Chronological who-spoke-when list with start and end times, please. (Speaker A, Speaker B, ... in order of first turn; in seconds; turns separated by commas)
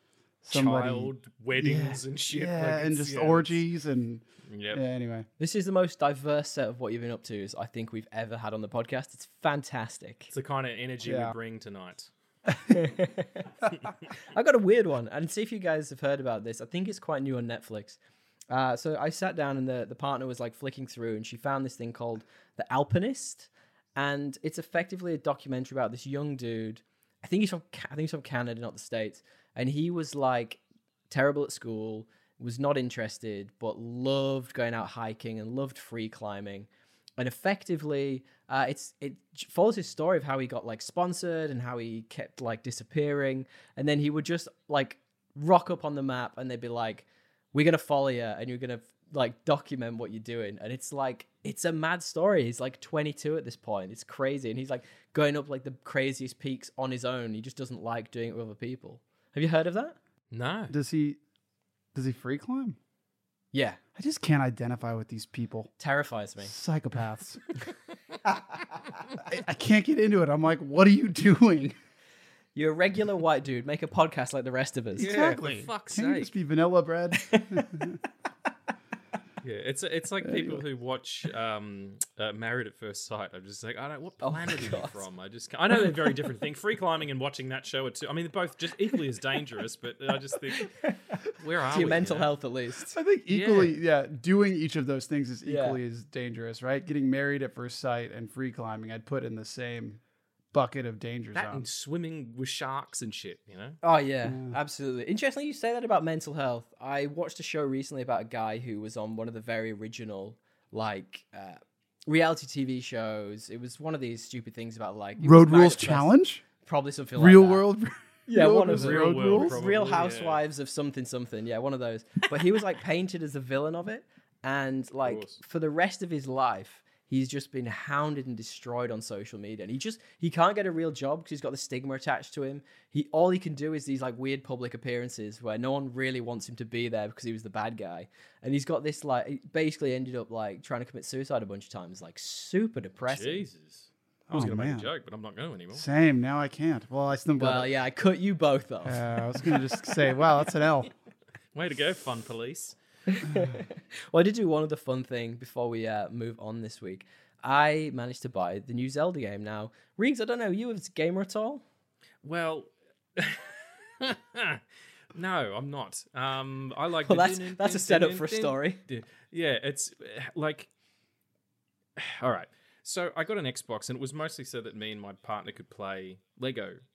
Speaker A: 0.4-5.3, Speaker B: 0.5-3.6, Speaker B: 4.5-4.8, Speaker C: 5.4-10.3, Speaker B: 10.3-12.1, Speaker A: 11.0-11.3, Speaker C: 12.7-13.5, Speaker C: 14.1-18.0, Speaker C: 18.5-60.0, Speaker B: 60.3-60.8, Speaker A: 60.7-61.2, Speaker A: 62.0-62.8, Speaker C: 63.5-63.8, Speaker A: 64.0-65.7, Speaker C: 65.8-66.5, Speaker A: 66.4-67.4, Speaker A: 69.2-71.8, Speaker C: 72.5-75.1, Speaker A: 75.0-78.0, Speaker B: 75.0-76.3, Speaker C: 77.2-78.0, Speaker B: 79.4-90.8, Speaker A: 80.2-80.6, Speaker C: 84.2-85.0, Speaker C: 90.5-93.0, Speaker B: 91.3-92.3, Speaker A: 92.9-100.0, Speaker B: 93.3-93.8, Speaker C: 95.5-95.8, Speaker A: 100.5-101.7, Speaker B: 101.3-103.8, Speaker C: 103.8-116.1, Speaker A: 104.2-104.6, Speaker A: 115.2-116.4, Speaker C: 116.6-117.6, Speaker A: 117.2-119.6, Speaker C: 118.3-143.5, Speaker B: 118.7-120.4, Speaker B: 125.0-125.4, Speaker B: 143.1-145.8, Speaker A: 144.3-144.9, Speaker A: 145.7-147.7, Speaker C: 147.4-150.0, Speaker A: 148.8-150.9, Speaker B: 151.6-152.8, Speaker C: 153.1-161.6, Speaker B: 162.2-164.6, Speaker B: 165.1-170.7, Speaker C: 167.1-168.8, Speaker B: 172.0-176.8